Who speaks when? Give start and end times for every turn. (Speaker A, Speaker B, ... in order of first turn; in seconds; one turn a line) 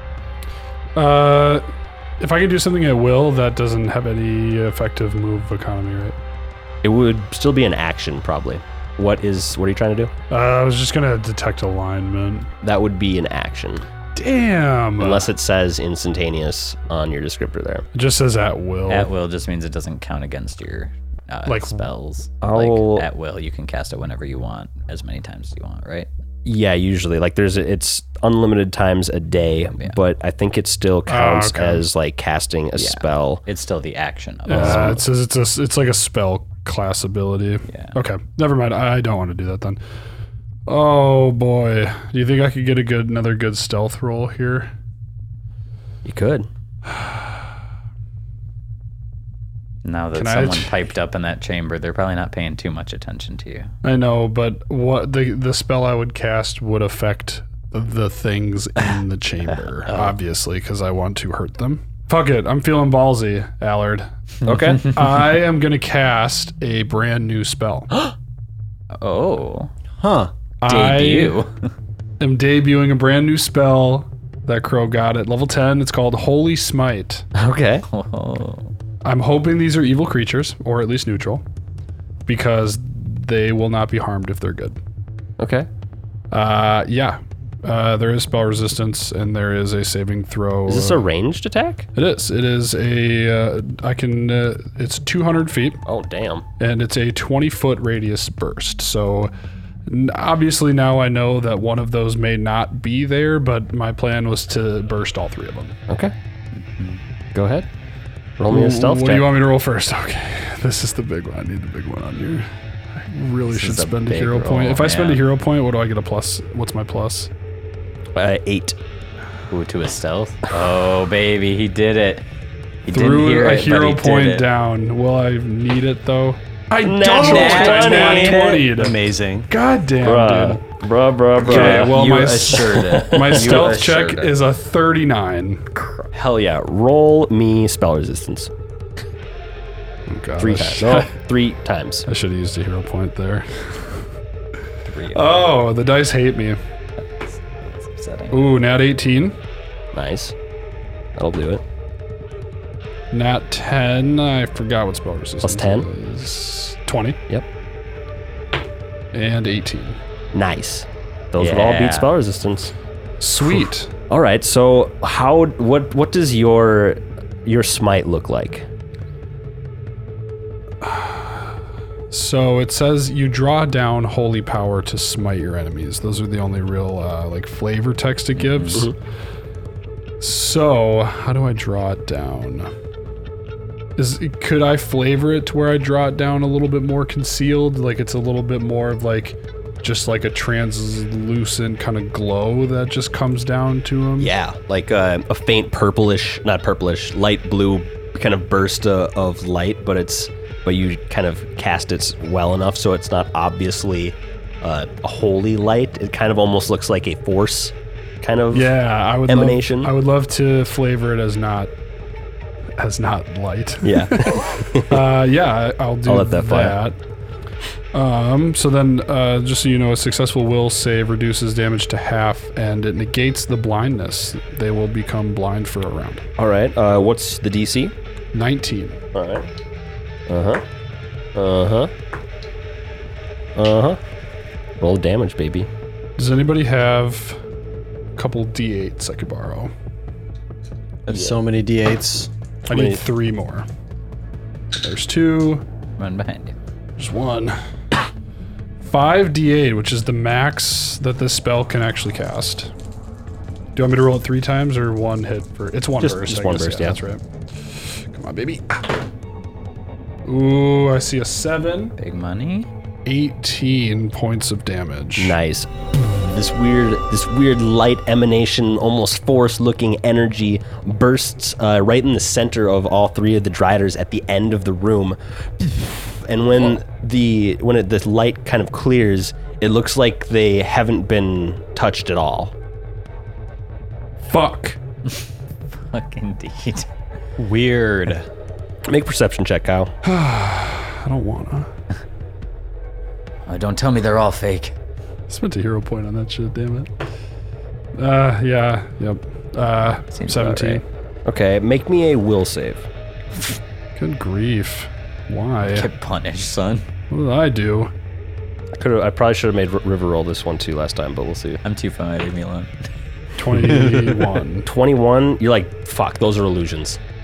Speaker A: 1.0-1.6
Speaker A: 2.2-6.2
Speaker B: 6.8-10.1
Speaker A: 10.3-12.5
Speaker B: 12.6-13.8
Speaker A: 14.2-15.3
Speaker B: 15.0-17.9
Speaker A: 17.9-19.1
Speaker C: 18.9-26.1
Speaker A: 21.5-21.8
Speaker B: 22.4-23.1
Speaker B: 26.4-33.4
Speaker A: 31.1-31.9
Speaker C: 32.8-35.0
Speaker A: 34.5-39.8
Speaker B: 34.5-35.0
Speaker C: 37.7-37.9
Speaker A: 40.7-44.7
Speaker B: 46.0-46.5
Speaker C: 49.9-53.7
Speaker A: 50.1-50.7
Speaker A: 53.8-64.1
Speaker C: 59.8-60.2
Speaker B: 64.5-64.9
Speaker C: 64.5-65.0
Speaker A: 64.8-67.9
Speaker C: 68.9-69.7
Speaker D: 70.0-70.3
Speaker A: 70.6-71.4
Speaker C: 70.7-71.5
Speaker A: 72.2-77.3
Speaker B: 77.4-77.9
Speaker C: 77.9-78.7
Speaker A: 79.0-81.4
Speaker A: 82.3-84.8
Speaker B: 85.4-85.7
Speaker A: 86.3-91.0
Speaker B: 90.7-91.9
Speaker A: 92.0-95.8
Speaker B: 95.9-96.5
Speaker A: 96.6-99.3
Speaker A: 99.9-105.8
Speaker B: 105.9-106.1
Speaker C: 106.6-107.0
Speaker B: 107.3-107.7
Speaker B: 108.4-109.3
Speaker A: 108.5-117.3
Speaker C: 113.5-115.2
Speaker B: 118.2-118.8
Speaker C: 119.5-122.3
Speaker C: 122.9-124.5
Speaker A: 122.9-129.0
Speaker B: 126.8-128.8
Speaker C: 127.2-128.6
Speaker D: 128.7-129.5
Speaker A: 129.5-130.6
Speaker B: 130.0-134.0
Speaker A: 131.4-135.7
Speaker C: 131.4-134.3
Speaker C: 135.7-136.1
Speaker B: 136.1-138.5
Speaker A: 140.1-141.1
Speaker B: 140.4-142.1
Speaker A: 142.1-144.0
Speaker C: 144.9-145.4
Speaker A: 145.1-146.6
Speaker C: 147.0-148.4
Speaker A: 148.3-149.4
Speaker B: 149.9-150.3
Speaker B: 151.2-151.6
Speaker A: 153.1-157.2
Speaker B: 155.4-155.9
Speaker A: 159.1-160.0
Speaker B: 160.3-162.7
Speaker C: 161.4-162.1
Speaker A: 163.2-163.9
Speaker B: 163.4-168.7
Speaker A: 170.8-171.6
Speaker A: 172.1-178.9
Speaker C: 178.4-178.9
Speaker A: 180.2-182.7
Speaker A: 184.0-194.3
Speaker B: 194.2-208.7
Speaker A: 208.5-211.7
Speaker B: 209.3-209.9
Speaker A: 212.8-217.0
Speaker B: 213.8-215.1
Speaker B: 216.1-216.8
Speaker A: 217.9-226.3
Speaker B: 226.4-227.9
Speaker A: 228.3-229.0
Speaker B: 229.1-229.5
Speaker B: 230.3-230.6
Speaker B: 231.3-231.9
Speaker B: 233.6-234.0
Speaker B: 234.8-235.7
Speaker A: 236.2-237.4
Speaker A: 238.2-239.7
Speaker D: 241.1-242.3
Speaker B: 241.1-241.4
Speaker B: 242.7-243.0
Speaker A: 242.7-243.7
Speaker A: 244.8-245.6
Speaker C: 246.0-246.6
Speaker A: 247.0-247.6
Speaker A: 248.8-252.7
Speaker A: 253.8-259.0
Speaker B: 256.0-257.0
Speaker A: 260.2-261.9
Speaker C: 262.0-262.7
Speaker A: 263.1-265.4
Speaker B: 265.2-265.7
Speaker B: 266.2-282.5
Speaker A: 284.3-284.8
Speaker C: 285.7-286.9
Speaker D: 287.4-288.3
Speaker B: 288.9-289.9
Speaker A: 290.1-291.7
Speaker C: 293.5-294.8
Speaker A: 295.3-296.9
Speaker A: 298.0-300.8
Speaker C: 300.1-300.8
Speaker B: 301.2-302.9
Speaker A: 303.9-305.9
Speaker C: 305.7-306.9
Speaker A: 307.1-307.9
Speaker B: 308.8-311.6
Speaker C: 311.6-312.9
Speaker A: 313.4-314.7
Speaker B: 314.6-317.0